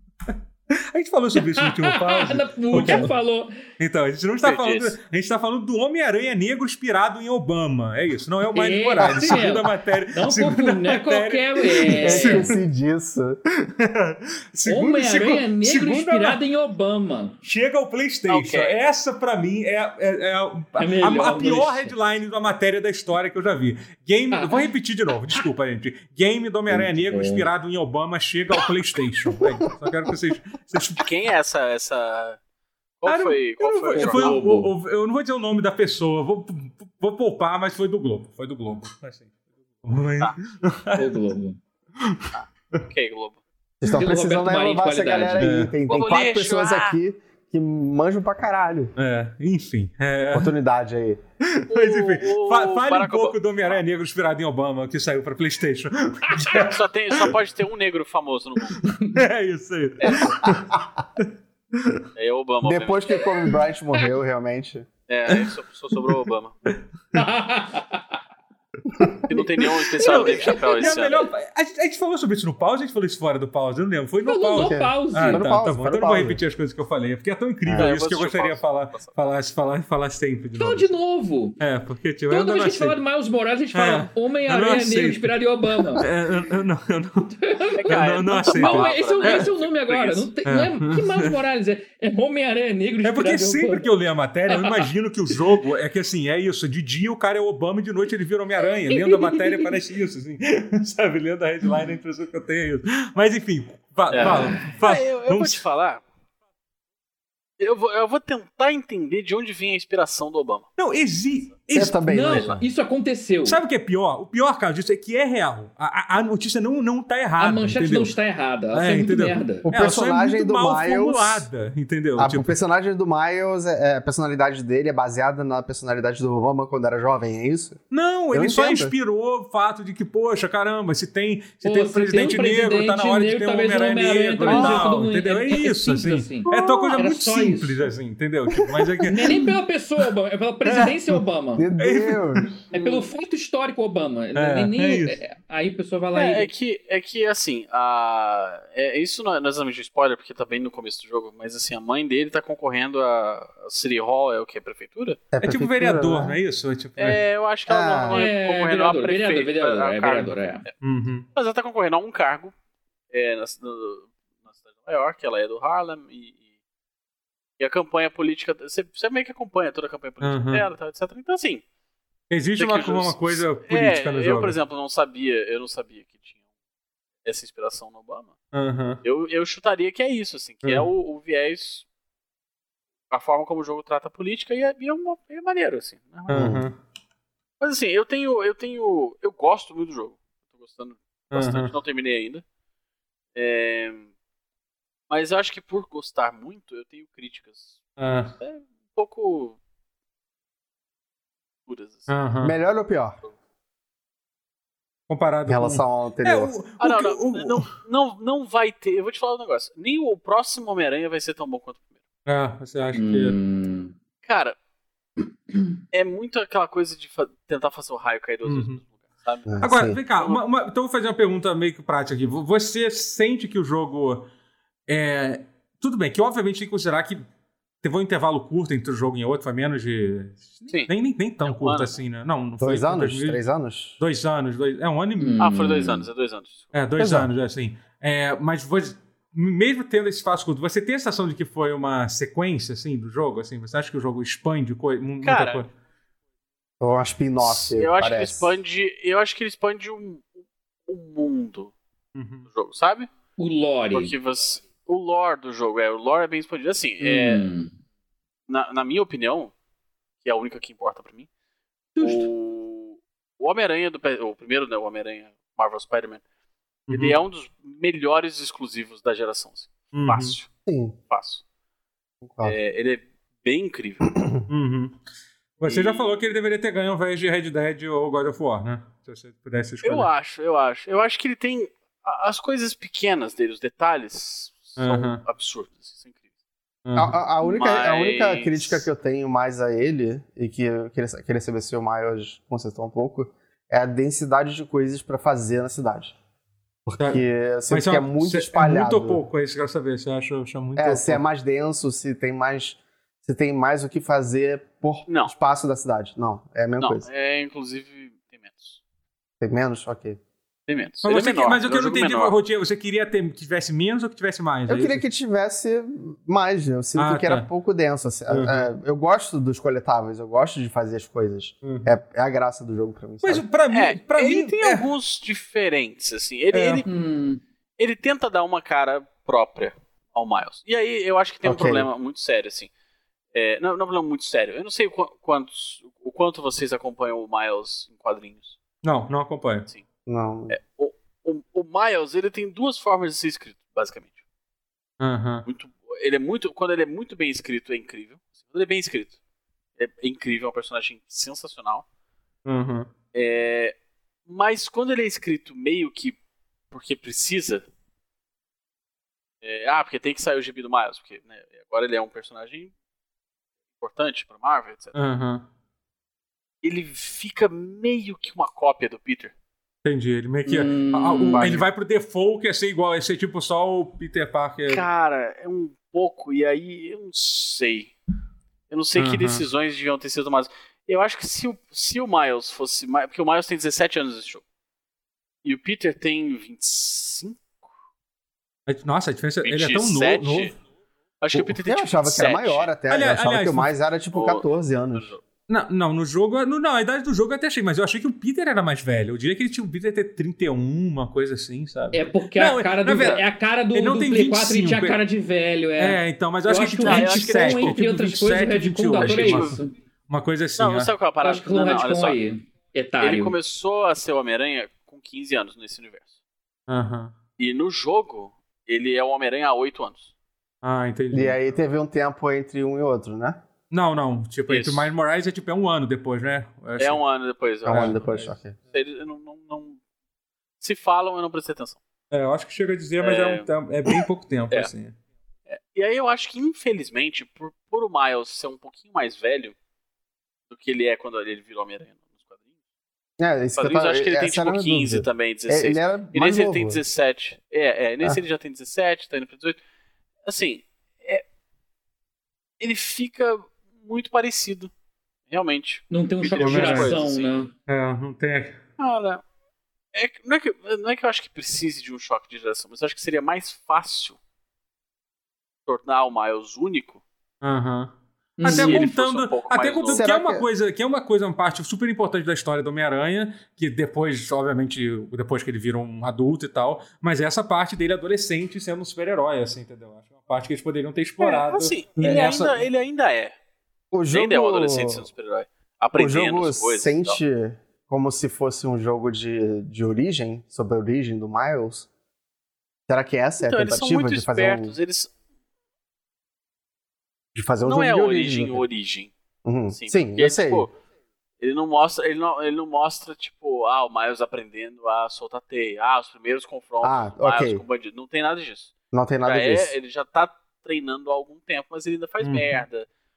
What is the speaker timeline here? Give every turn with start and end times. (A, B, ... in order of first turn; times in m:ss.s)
0:00.9-0:03.1 A
0:01.4-0:03.6 B
0:03.8-0:12.5 A
0:04.4-0:05.0 C
0:08.5-0:12.5 B
0:09.0-0:09.4 D
0:12.0-0:13.4 D
0:13.6-0:16.4 A
0:14.6-0:17.4 B
0:17.4-0:31.1 A
0:18.3-0:18.8 C
0:20.8-0:21.9 B
0:24.3-0:24.6 B
0:26.7-0:27.4 B
0:31.0-0:32.4 C
0:33.0-0:34.5 C
0:33.1-0:39.3 A
0:34.0-0:34.6 D
0:39.8-0:41.2 A
0:40.9-0:41.6 B
0:42.0-0:42.3 A
0:42.3-0:43.4 C
0:43.8-0:48.9 D
0:43.9-0:45.6 B
0:45.4-0:45.7 A
0:45.9-0:47.0 C
0:49.0-0:50.5 A
0:50.3-0:51.2 D
0:51.6-0:57.3 A
0:51.7-0:53.8 C
0:56.5-0:58.9 C
0:58.7-1:02.0 A
1:00.0-1:00.6 C
1:02.1-1:03.2 C
1:02.6-1:04.9 D
1:05.1-1:06.5 C
1:07.1-1:08.0 B
1:08.9-1:20.9 A
1:09.3-1:11.3 C
1:10.0-1:10.9 B
1:14.2-1:15.5 B
1:14.6-1:16.4 D
1:17.6-1:17.9 D
1:17.8-1:19.2 C
1:20.6-1:21.6 B
1:21.6-1:23.0 A
1:22.3-1:26.1 B
1:23.7-1:25.3 A
1:25.9-1:29.5 A
1:27.4-1:33.9 B
1:27.7-1:30.3 C
1:30.4-1:31.4 A
1:33.0-1:45.6 A
1:34.5-1:34.9 B
1:38.9-1:39.7 B
1:44.1-1:46.0 C
1:44.2-1:44.8 B
1:47.6-1:50.7 C
1:50.8-1:52.5 A
1:51.7-1:52.6 D
1:52.1-1:53.6 B
1:53.4-1:58.2 A
1:57.4-1:59.7 B
1:58.7-2:02.6 A
1:59.6-2:01.5 D
2:02.2-2:07.8 D
2:07.9-2:19.5 A
2:08.3-2:08.9 D
2:11.6-2:17.8 B
2:14.4-2:14.8 D
2:16.5-2:16.8 C
2:19.1-2:21.7 B
2:20.6-2:21.0 A
2:21.6-2:22.6 D
2:21.8-2:22.6 A
2:22.7-2:26.5 B
2:24.4-2:25.2 A
2:26.1-2:35.2 C
2:35.3-2:36.4 D
2:35.4-2:37.2 A
2:37.0-2:40.7 C
2:37.7-2:38.2 D
2:38.1-2:40.6 B
2:40.8-2:41.3 A
2:41.3-2:42.5 C
2:43.1-2:44.1 C
2:44.8-2:46.4 C
2:47.6-2:51.6 C
2:50.2-2:50.6 A
2:52.3-2:54.6 A
2:52.6-2:56.4 C
2:57.2-2:58.4 C
2:58.5-2:59.0 A
2:59.0-3:01.9 C
3:03.1-3:06.6 C
3:06.3-3:06.8 A
3:06.3-3:06.6 D
3:07.6-3:12.4 C
3:11.3-3:11.7 A
3:13.4-3:14.1 C
3:15.1-3:17.8 C
3:18.0-3:18.4 A
3:18.4-3:19.6 C
3:21.7-3:22.1 C
3:22.1-3:22.6 A
3:22.4-3:23.2 D
3:25.1-3:27.6 A
3:25.5-3:26.6 D
3:26.8-3:31.9 C
3:32.3-3:33.4 A
3:32.9-3:33.9 B
3:34.2-3:34.6 C
3:35.9-3:39.6 C
3:38.4-3:38.8 A
3:39.5-3:40.0 D
3:39.6-3:44.3 A
3:44.9-3:47.2 A
3:47.8-3:53.4 A
3:51.4-3:52.0 C
3:52.6-3:54.0 D
3:54.0-3:55.5 A
3:55.2-3:56.1 B
3:55.4-3:56.7 C
3:56.7-4:05.7 A
3:57.0-3:57.3 D
4:05.2-4:05.6 C
4:06.8-4:08.6 D
4:07.4-4:10.3 C
4:10.9-4:11.7 C
4:12.1-4:12.4 A
4:12.5-4:13.1 C
4:13.4-4:14.1 B
4:13.9-4:17.5 C
4:17.0-4:17.7 B
4:18.5-4:19.5 C
4:20.2-4:21.3 C
4:22.0-4:22.3 B
4:22.0-4:26.2 C
4:26.9-4:27.2 A
4:26.9-4:30.5 C
4:29.9-4:30.4 A
4:30.7-4:30.9 D
4:31.1-4:31.4 C
4:32.2-4:32.6 D
4:32.4-4:34.1 C
4:34.1-4:34.4 D
4:34.5-4:35.0 A
4:35.6-4:40.1 A
4:35.6-4:36.2 C
4:39.8-4:46.2 C
4:44.8-4:45.2 A
4:46.8-4:47.2 A
4:47.0-4:56.1 D
4:47.4-4:48.9 C
4:56.9-4:59.2 D
4:57.0-5:01.2 A
5:00.8-5:07.1 D
5:05.1-5:05.3 C
5:06.8-5:08.8 C
5:09.4-5:10.2 D
5:10.7-5:12.4 C
5:11.0-5:15.0 A
5:14.7-5:23.4 D
5:17.0-5:17.5 A
5:18.3-5:18.7 A
5:21.6-5:21.9 A
5:23.2-5:24.9 A
5:23.7-5:26.9 C
5:26.5-5:26.8 A
5:26.9-5:27.4 B
5:27.8-5:32.7 C
5:31.4-5:31.9 D
5:33.3-5:38.6 C
5:38.8-5:39.7 A
5:40.1-5:40.6 D
5:40.5-5:44.2 C
5:45.0-5:45.4 A
5:45.5-5:49.2 C
5:49.8-5:51.8 C
5:52.4-5:52.9 A
5:53.1-5:53.7 C
5:54.3-5:56.2 C
5:56.7-5:57.7 C
5:59.4-6:02.7 C
6:03.8-6:04.9 C
6:04.9-6:05.4 A
6:06.6-6:09.3 C
6:09.8-6:14.9 A
6:10.4-6:11.5 B
6:11.3-6:11.6 C
6:14.7-6:17.9 C
6:18.7-6:24.4 C
6:19.0-6:19.4 A
6:25.4-6:27.7 C
6:28.7-6:30.5 A
6:29.4-6:30.5 C
6:31.2-6:32.7 C
6:31.6-6:35.1 D
6:32.9-6:33.7 A
6:34.1-6:35.2 C
6:35.5-6:45.0 A
6:41.9-6:49.7 B
6:45.8-6:50.9 A
6:46.8-6:47.8 C
6:49.0-6:49.6 C
6:50.6-6:52.2 C
6:51.2-6:53.4 B
6:53.0-6:56.1 C
6:56.7-6:57.1 A
6:57.4-7:00.1 C
7:00.6-7:01.4 A
7:01.1-7:03.4 D
7:03.7-7:07.0 A
7:04.5-7:04.9 C
7:06.8-7:08.1 C
7:07.7-7:08.6 D
7:07.7-7:08.3 A
7:08.7-7:09.8 C
7:10.6-7:11.8 C
7:12.1-7:15.0 A
7:13.0-7:14.7 C
7:15.5-7:19.6 C
7:20.5-7:22.5 C
7:23.2-7:26.8 D
7:23.6-7:29.6 C
7:30.3-7:31.2 C
7:32.6-7:34.7 C
7:35.3-7:37.3 C
7:35.9-7:37.5 B
7:36.4-7:37.0 A
7:37.7-7:38.6 A
7:38.8-7:39.2 C
7:39.9-7:44.2 C
7:45.7-7:47.0 C
7:47.4-8:02.6 A
7:48.4-7:48.8 B
7:48.4-7:50.1 C
7:49.9-7:50.4 D
8:01.2-8:03.3 C
8:03.9-8:05.0 D
8:04.1-8:07.2 C
8:06.0-8:11.9 D
8:12.9-8:14.7 D
8:13.4-8:15.1 C
8:17.3-8:18.6 D
8:17.6-8:19.1 C
8:19.4-8:20.7 D
8:19.7-8:20.7 C
8:21.4-8:28.7 C
8:26.8-8:27.6 D
8:28.9-8:29.7 D
8:29.2-8:32.9 C
8:32.2-8:32.6 A